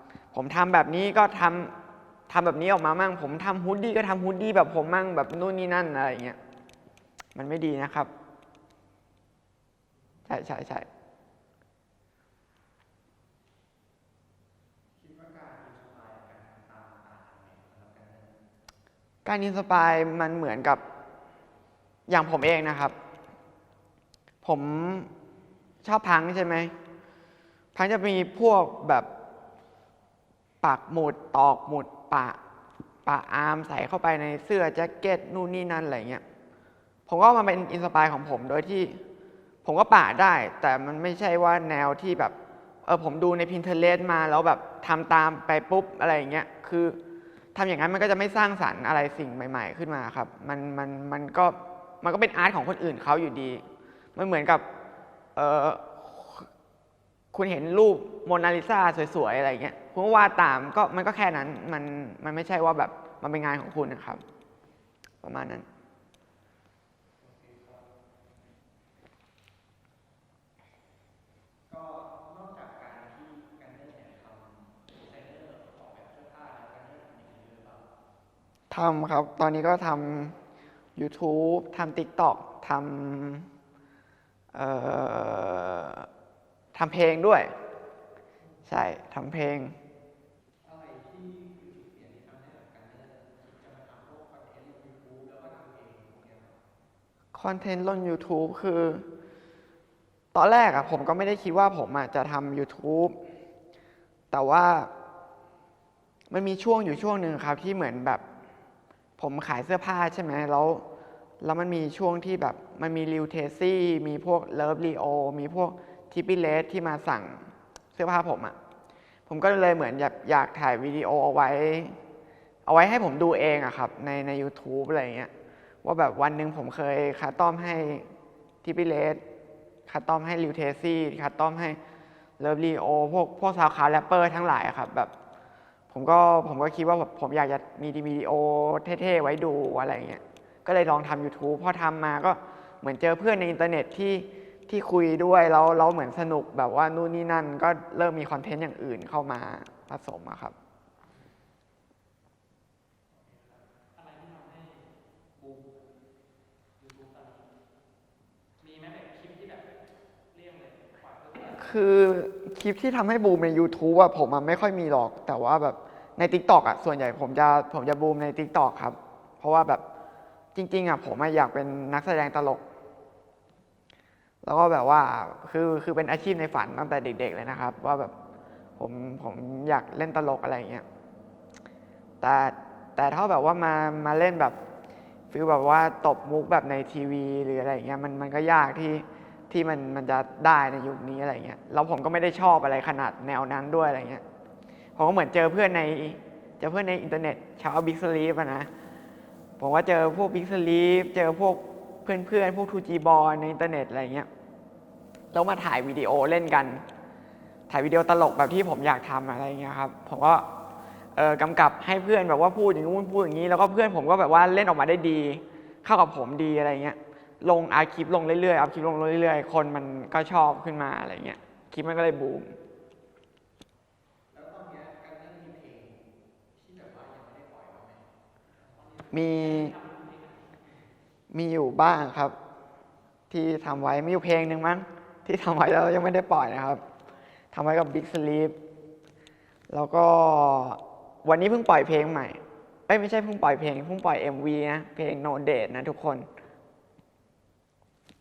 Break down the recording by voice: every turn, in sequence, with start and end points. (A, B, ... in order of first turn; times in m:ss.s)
0:00.3-0:01.8 A
0:02.3-0:06.4 A
0:07.4-0:08.1 A
0:10.3-0:10.9 A
0:15.0-0:18.4 B
0:19.2-0:20.8 A
0:22.1-0:23.0 A
0:24.4-0:25.1 A
0:25.8-0:26.7 A
0:27.8-0:29.1 A
0:30.6-0:32.4 A
0:33.0-0:36.2 A
0:37.1-0:39.0 A
0:39.6-0:47.0 A
0:47.6-0:53.6 A
0:54.2-0:54.6 A
0:55.4-0:56.5 A
0:57.3-1:04.2 A
1:05.2-1:05.7 A
1:07.2-1:07.9 B
1:11.7-1:17.9 B
1:18.7-1:20.4 A
1:21.0-1:23.5 A
1:24.5-1:26.1 A
1:26.7-1:27.5 A
1:28.7-1:29.8 A
1:30.6-1:36.6 B
1:37.3-1:39.1 A
1:40.3-1:43.2 A
1:44.3-1:44.9 A
1:46.3-1:48.2 A
1:49.2-1:50.9 A
1:51.4-1:58.6 A
1:59.3-2:02.0 A
2:02.7-2:05.3 A
2:05.8-2:08.1 A
2:08.6-2:09.2 A
2:09.9-2:11.8 A
2:12.4-2:15.1 A
2:15.9-2:30.6 A
2:33.1-2:35.8 C
2:36.8-2:37.5 C
2:38.6-2:39.7 C
2:40.3-2:41.9 C
2:41.6-2:49.8 A
2:50.6-2:52.6 A
2:54.4-2:58.1 A
2:58.8-3:00.8 A
3:02.2-3:04.6 A
3:05.3-3:14.2 A
3:15.0-3:18.7 A
3:19.6-3:24.3 A
3:25.3-3:26.8 A
3:27.7-3:30.4 A
3:31.2-3:42.6 A
3:44.3-3:46.0 B
3:46.6-3:48.1 B
3:48.7-3:50.6 C
3:49.1-3:49.8 A
3:51.3-3:52.4 A
3:53.3-3:56.8 A
3:57.5-3:58.6 A
3:59.7-4:06.3 A